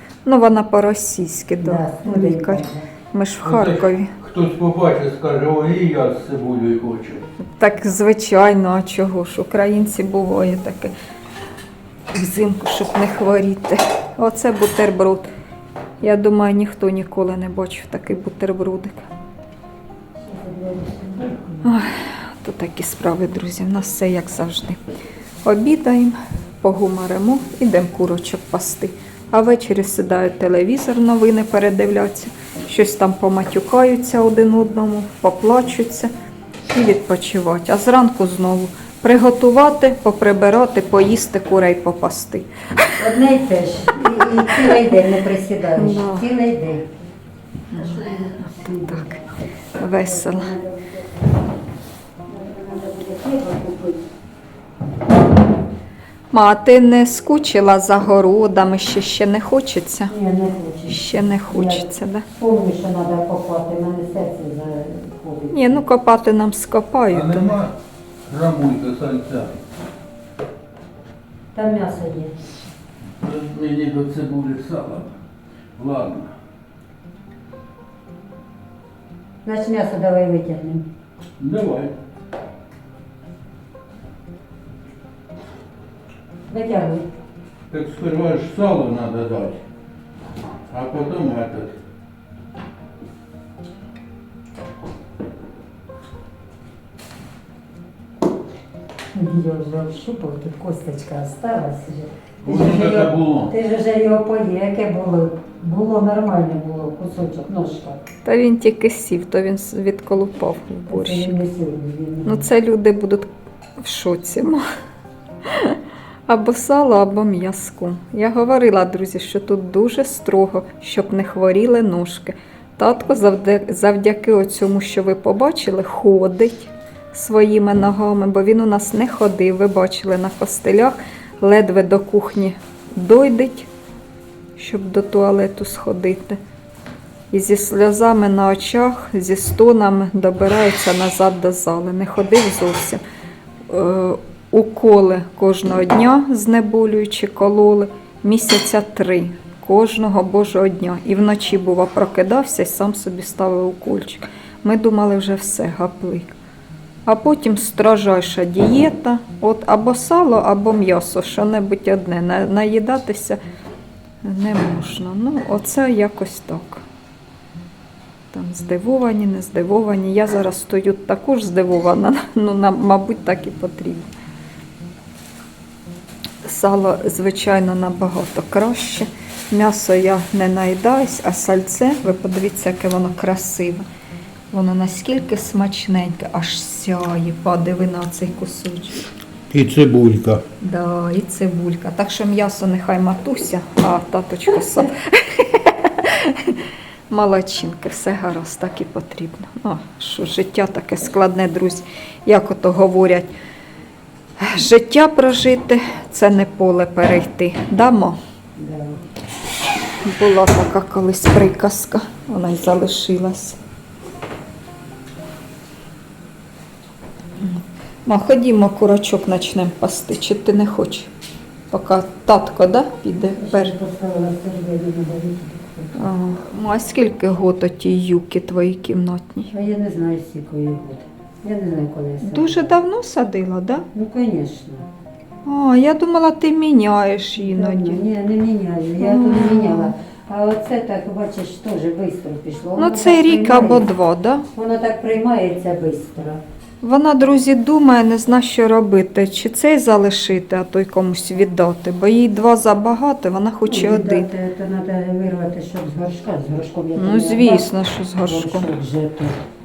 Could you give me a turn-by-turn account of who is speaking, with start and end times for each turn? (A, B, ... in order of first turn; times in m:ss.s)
0:00.2-0:04.1 A
0:01.6-0:02.9 B
0:03.4-0:07.2 C
0:07.4-0:10.9 A
0:12.1-0:15.3 A
0:16.0-0:19.0 A
0:20.2-0:21.7 B
0:21.6-0:24.8 A
0:25.4-0:36.1 A
0:36.7-0:42.9 A
0:43.0-0:46.9 B
0:45.7-0:46.3 A
0:47.7-0:48.3 A
0:47.7-0:49.1 B
0:48.8-0:49.2 A
0:49.8-0:50.5 A
0:49.9-0:51.2 B
0:52.3-0:54.0 B
0:56.3-1:00.1 A
1:00.1-1:05.8 B
1:00.9-1:02.2 A
1:05.5-1:07.5 A
1:07.1-1:07.7 C
1:08.3-1:09.6 C
1:11.5-1:12.3 B
1:13.2-1:15.1 C
1:15.8-1:16.3 C
1:19.4-1:20.9 B
1:21.4-1:21.9 C
1:26.5-1:27.1 B
1:27.7-1:29.6 C
1:30.7-1:31.8 C
1:39.1-1:48.0 B
1:42.4-1:43.5 C
1:48.2-1:51.4 A
1:50.9-1:52.4 B
1:52.2-1:53.3 A
1:53.8-1:54.6 A
1:55.4-2:13.7 A
2:14.6-2:16.4 A
2:17.3-2:23.0 A
2:23.7-2:36.3 A
2:37.0-2:43.4 A
2:44.2-2:46.8 A
2:48.3-2:54.1 A
2:56.4-3:03.8 A
3:04.5-3:09.1 A
3:09.5-3:10.4 C
3:10.6-3:23.3 A
3:24.4-3:28.2 A
3:28.6-3:29.0 B
3:30.0-3:33.6 A
3:37.4-3:41.1 A
3:41.7-3:43.7 A
3:43.4-3:46.1 B
3:46.0-3:49.5 A
3:49.5-3:52.8 B
3:52.2-3:53.8 A
3:53.9-3:54.8 B
3:55.4-3:58.0 A
3:57.4-4:03.9 B
3:59.0-3:59.9 A
4:02.8-4:04.4 A
4:04.5-4:06.4 B
4:06.8-4:14.3 A
4:13.6-4:17.7 B
4:17.0-4:18.7 A
4:18.2-4:19.4 B